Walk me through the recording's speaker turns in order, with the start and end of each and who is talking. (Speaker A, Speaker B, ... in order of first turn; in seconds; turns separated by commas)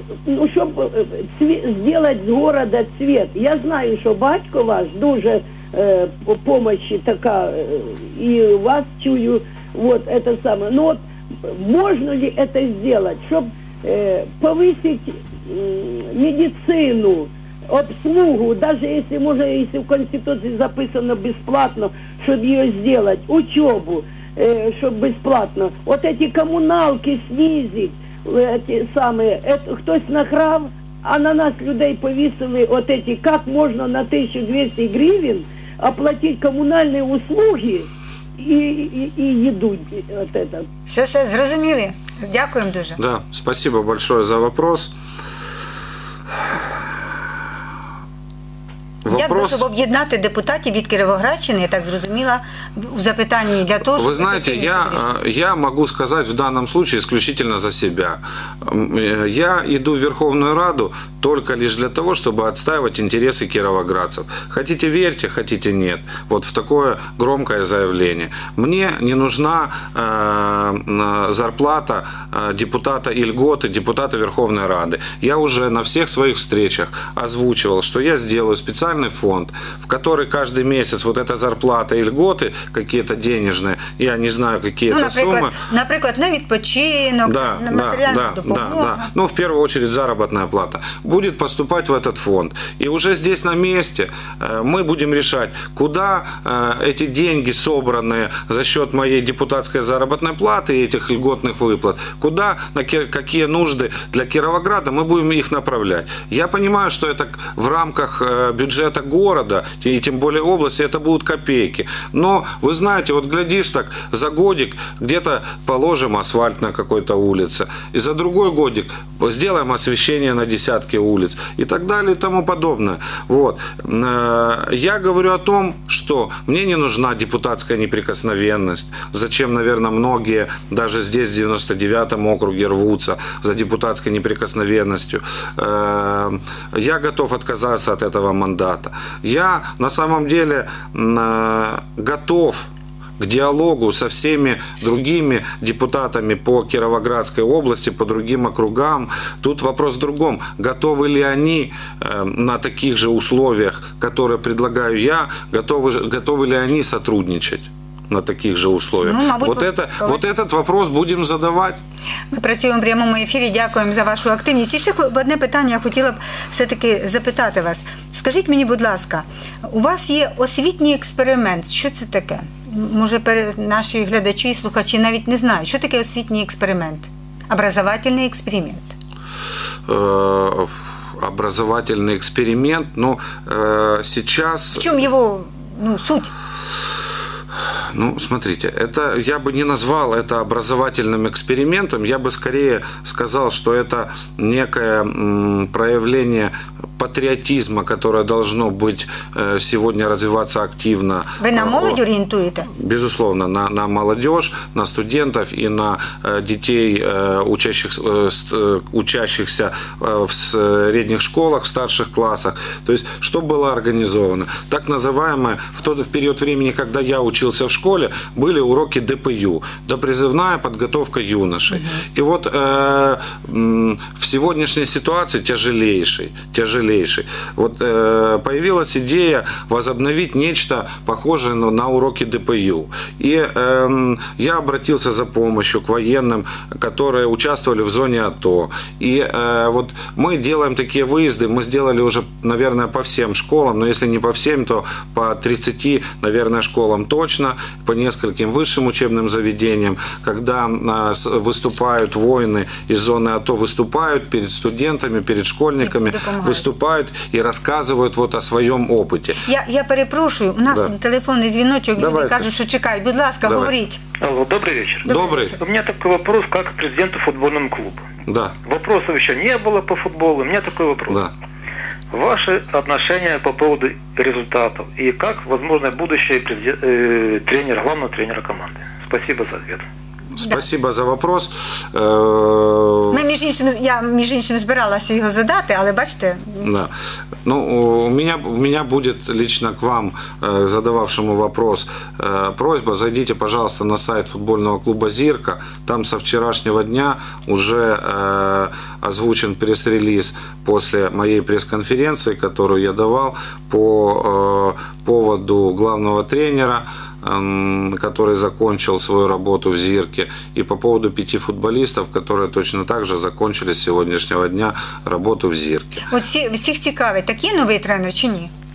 Speaker A: 0.3-37.9, Speaker A: 38.4-40.6, Speaker B: 40.9-43.0, Speaker C: 43.0-44.9, Speaker C: 49.0-49.6, Speaker B: 49.1-55.2, Speaker C: 53.9-85.6, Speaker B: 84.9-89.1, Speaker C: 87.2-161.8, Speaker B: 159.0-160.2, Speaker B: 162.3-178.9, Speaker C: 179.9-185.0, Speaker B: 184.7-186.3, Speaker C: 187.9-202.0, Speaker B: 201.4-202.7, Speaker C: 202.7-259.4, Speaker B: 221.7-222.0, Speaker B: 255.8-256.6, Speaker B: 259.4-264.0, Speaker C: 262.0-262.5, Speaker C: 263.4-263.7, Speaker D: 264.2-268.0, Speaker B: 265.0-265.6, Speaker C: 265.1-265.5, Speaker C: 268.2-268.6, Speaker D: 268.6-271.2, Speaker D: 272.1-279.8, Speaker C: 280.4-283.2, Speaker B: 283.1-286.7, Speaker C: 286.6-286.9, Speaker C: 287.4-316.0, Speaker B: 316.1-318.5